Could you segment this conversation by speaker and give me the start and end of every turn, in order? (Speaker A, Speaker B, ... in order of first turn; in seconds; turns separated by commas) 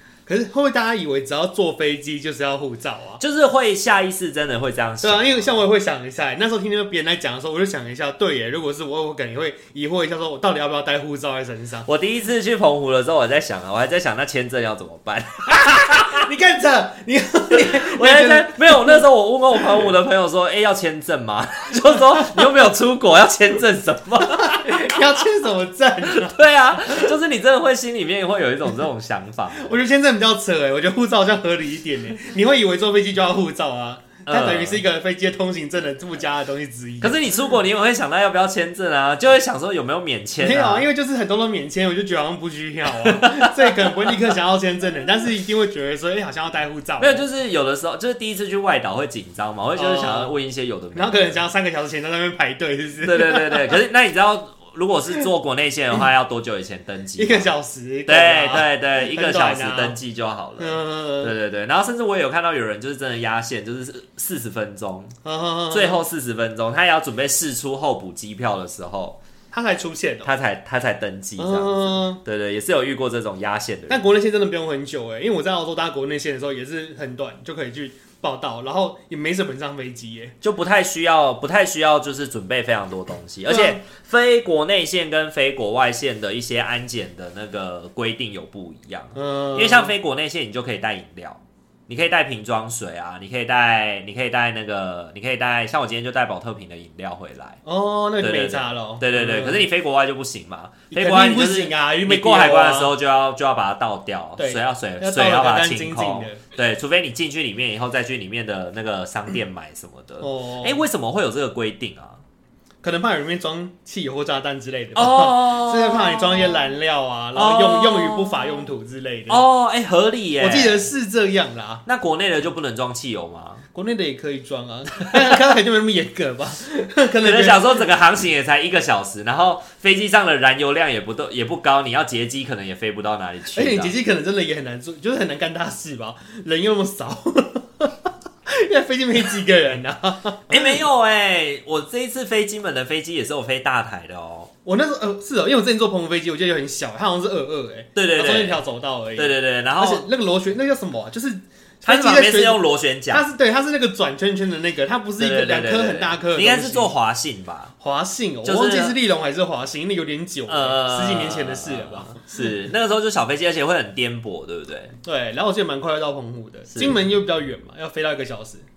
Speaker A: 0.3-3.2, Speaker B: 3.2-5.6, Speaker A: 5.0-11.9, Speaker B: 11.8-16.2, Speaker A: 15.5-19.0, Speaker B: 17.5-25.1, Speaker A: 19.6-19.9, Speaker A: 24.4-27.1, Speaker B: 26.1-29.7, Speaker A: 29.6-37.2, Speaker B: 34.2-34.8, Speaker B: 37.0-40.9, Speaker A: 40.4-47.3, Speaker B: 43.0-44.1, Speaker B: 47.0-51.4, Speaker A: 49.8-50.3, Speaker A: 51.0-53.8, Speaker B: 53.0-57.5, Speaker A: 57.2-60.0, Speaker B: 58.1-65.2, Speaker A: 60.6-61.3, Speaker A: 65.2-66.0, Speaker B: 65.7-69.2, Speaker A: 69.5-70.3, Speaker B: 70.2-74.1, Speaker A: 71.4-72.2, Speaker A: 73.9-80.3, Speaker B: 80.4-97.6, Speaker A: 83.5-83.8, Speaker A: 89.2-89.9, Speaker A: 97.7-99.7, Speaker B: 98.2-112.2, Speaker A: 100.9-102.9, Speaker A: 104.4-106.4, Speaker A: 110.2-110.8, Speaker A: 112.8-119.4, Speaker B: 115.0-116.7, Speaker B: 117.3-118.7, Speaker B: 119.3-120.9, Speaker A: 120.4-121.8, Speaker B: 121.9-123.6, Speaker A: 123.7-127.8, Speaker B: 127.2-134.0, Speaker A: 133.5-140.8, Speaker B: 140.5-144.5, Speaker A: 144.7-156.9, Speaker B: 147.9-148.6, Speaker B: 149.2-150.1, Speaker B: 151.8-153.3, Speaker B: 155.2-157.7, Speaker A: 157.8-162.2, Speaker B: 158.4-159.0, Speaker B: 160.5-164.9, Speaker A: 165.0-168.7, Speaker B: 166.7-167.0